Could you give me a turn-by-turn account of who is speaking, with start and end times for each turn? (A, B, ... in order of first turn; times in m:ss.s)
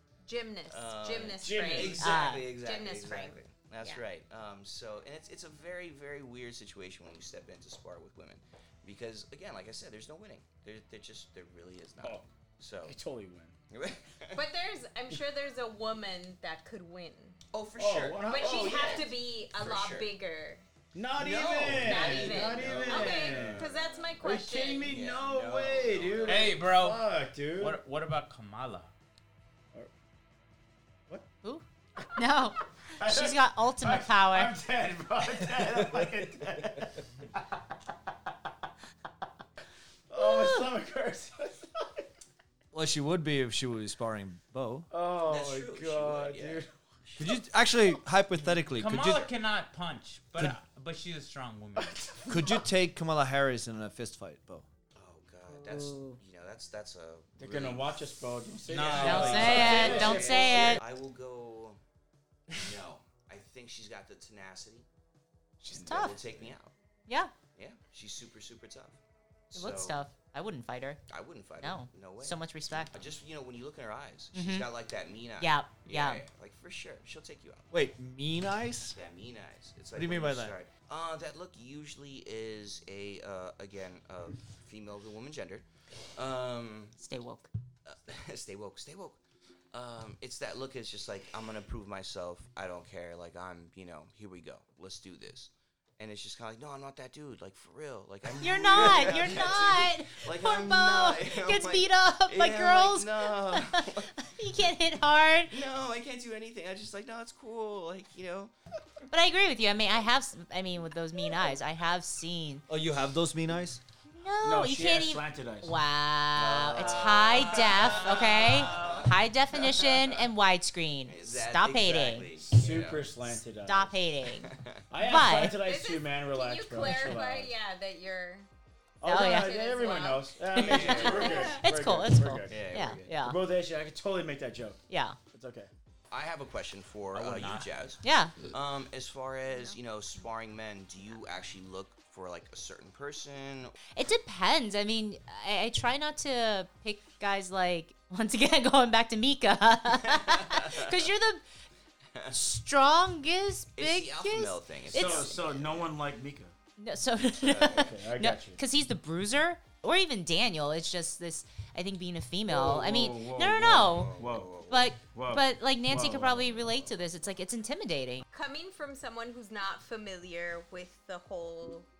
0:00.2-0:04.0 A
0:00.7-0:13.0 B
0:01.4-0:02.0 C
0:01.8-0:02.5 D
0:12.8-0:13.6 C
0:13.7-0:14.4 B
0:14.3-0:17.4 A
0:17.5-0:20.1 B
0:17.8-0:19.0 C
0:18.3-0:20.6 A
0:20.9-0:23.6 C
0:21.1-0:24.2 B
0:21.7-0:25.0 A
0:24.2-0:27.8 C
0:24.8-0:26.6 B
0:26.2-0:27.0 E
0:27.5-0:28.9 E
0:32.2-0:34.5 D
0:32.9-0:37.6 C
0:40.1-0:41.9 C
0:40.2-0:40.6 D
0:42.7-0:44.9 F
0:44.9-0:46.7 C
0:45.2-0:47.3 B
0:47.2-0:49.3 F
0:48.7-0:52.1 E
0:52.3-0:54.7 F
0:54.9-0:58.1 B
0:55.5-0:56.2 D
0:57.4-1:00.8 C
0:58.7-1:00.1 E
0:58.7-1:01.8 B
0:59.0-1:00.8 D
1:02.5-1:04.9 B
1:05.6-1:06.1 D
1:05.7-1:06.5 C
1:05.7-1:06.7 B
1:07.1-1:07.3 D
1:07.6-1:09.0 B
1:09.5-1:10.0 B
1:09.5-1:11.0 D
1:11.1-1:17.7 B
1:11.6-1:13.0 D
1:14.3-1:14.7 D
1:15.4-1:16.2 D
1:17.7-1:19.0 F
1:18.9-1:27.0 B
1:19.9-1:20.5 F
1:27.0-1:27.5 D
1:27.8-1:29.2 B
1:29.7-1:44.1 B
1:38.4-1:45.6 D
1:45.5-1:48.5 B
1:49.1-1:52.6 D
1:52.7-1:53.8 F
1:54.1-2:02.3 D
1:54.4-1:55.8 C
1:56.3-2:00.2 B
1:56.7-1:59.1 C
2:01.0-2:03.2 B
2:02.3-2:04.0 C
2:03.6-2:05.6 D
2:04.4-2:04.8 B
2:04.9-2:07.5 C
2:05.5-2:08.5 A
2:09.0-2:15.7 C
2:09.0-2:09.6 D
2:09.2-2:11.6 A
2:10.5-2:11.6 B
2:10.5-2:13.4 D
2:12.5-2:13.1 B
2:14.9-2:15.2 D
2:16.1-2:23.7 B
2:17.1-2:17.7 E
2:18.0-2:18.3 D
2:19.5-2:19.8 A
2:23.9-2:31.4 D
2:29.9-2:31.0 B
2:32.3-2:35.3 D
2:33.8-2:35.9 B
2:34.9-2:36.5 C
2:36.8-2:44.1 D
2:37.3-2:38.0 B
2:37.7-2:38.6 C
2:42.5-2:46.6 C
2:43.8-2:44.9 B
2:44.7-2:48.2 D
2:46.7-2:47.0 B
2:48.3-2:51.9 A